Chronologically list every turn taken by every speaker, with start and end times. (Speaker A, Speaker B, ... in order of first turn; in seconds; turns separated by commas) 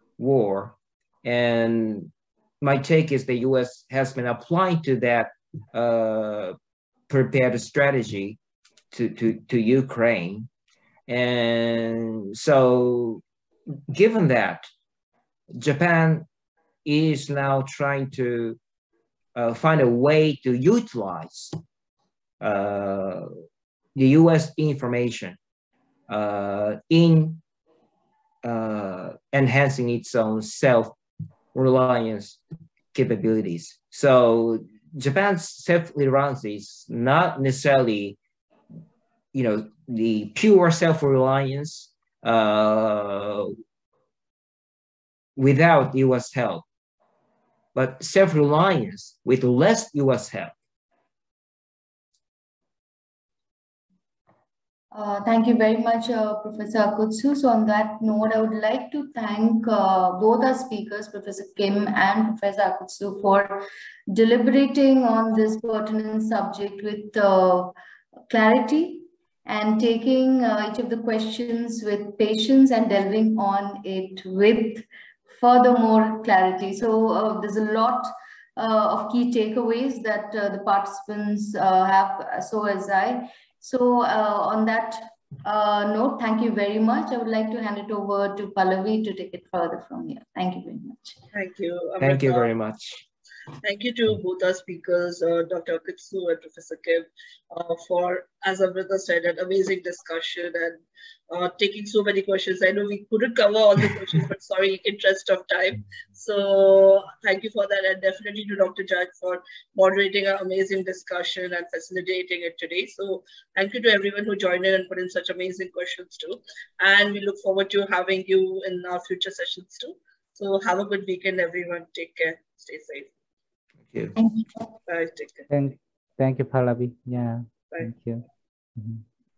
Speaker A: 0.2-6.5, Speaker A: 7.1-8.4, Speaker A: 8.9-10.5, Speaker A: 11.1-13.2, Speaker A: 13.9-14.7, Speaker A: 15.5-16.3, Speaker A: 16.8-18.6, Speaker A: 19.3-21.6, Speaker A: 22.4-23.3, Speaker A: 23.9-25.4, Speaker A: 26.1-27.4, Speaker A: 28.4-30.9, Speaker A: 31.5-32.4, Speaker A: 32.9-38.2, Speaker A: 39.3-43.5, Speaker A: 45.4-46.6, Speaker A: 47.7-50.5, Speaker B: 54.9-67.7, Speaker B: 68.3-91.2, Speaker C: 91.3-92.5, Speaker A: 92.0-93.0, Speaker C: 93.6-123.1, Speaker B: 124.2-124.5, Speaker C: 124.9-125.5, Speaker D: 125.5-128.2, Speaker D: 128.8-129.0